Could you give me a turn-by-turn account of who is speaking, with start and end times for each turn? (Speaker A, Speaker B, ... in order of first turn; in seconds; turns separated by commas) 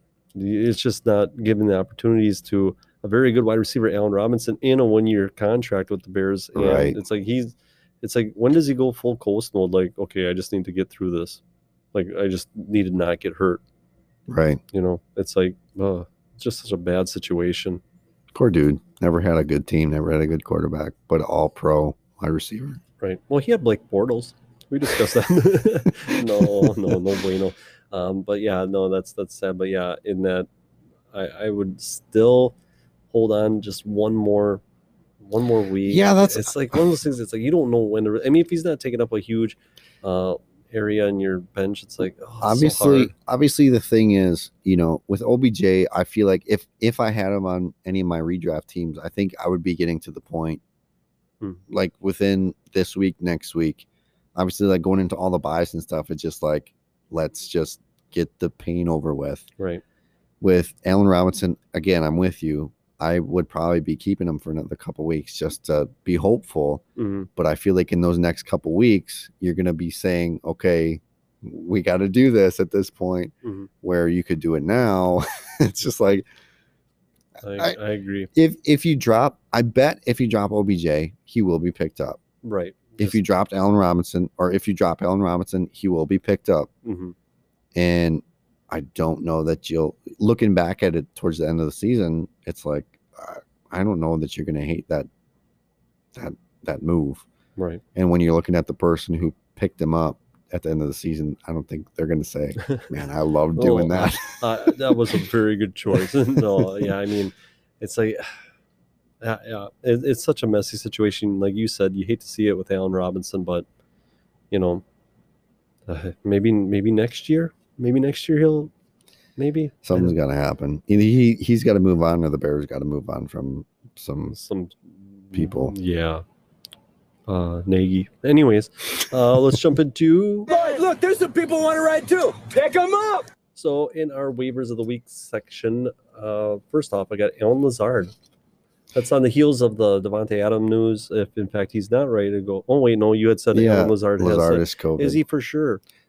Speaker A: 0.3-11.4, Speaker B: 6.5-7.0, Speaker A: 11.9-13.6, Speaker B: 14.3-14.6, Speaker A: 14.7-17.8, Speaker B: 18.3-22.8, Speaker A: 23.0-30.5, Speaker A: 31.1-32.5, Speaker A: 33.1-34.6, Speaker A: 35.2-43.1, Speaker B: 35.9-36.8, Speaker B: 42.4-50.6, Speaker B: 51.7-53.9, Speaker B: 54.4-59.5, Speaker B: 60.4-66.8, Speaker A: 67.0-67.3, Speaker B: 67.4-76.3, Speaker A: 73.4-73.7, Speaker A: 77.4-78.3, Speaker B: 78.3-82.2, Speaker A: 82.4-83.2, Speaker B: 83.0-86.7, Speaker A: 86.8-87.1, Speaker B: 87.8-95.1, Speaker B: 96.1-97.2, Speaker A: 97.6-97.8, Speaker B: 98.0-105.1, Speaker A: 103.6-108.4, Speaker A: 109.2-113.7, Speaker A: 114.5-114.8, Speaker A: 115.9-118.7, Speaker A: 119.4-120.1, Speaker B: 119.8-124.3, Speaker A: 124.3-126.2, Speaker B: 125.3-125.8, Speaker A: 127.3-130.5, Speaker C: 130.5-133.3, Speaker A: 133.6-138.1, Speaker A: 138.9-145.8, Speaker B: 143.5-145.2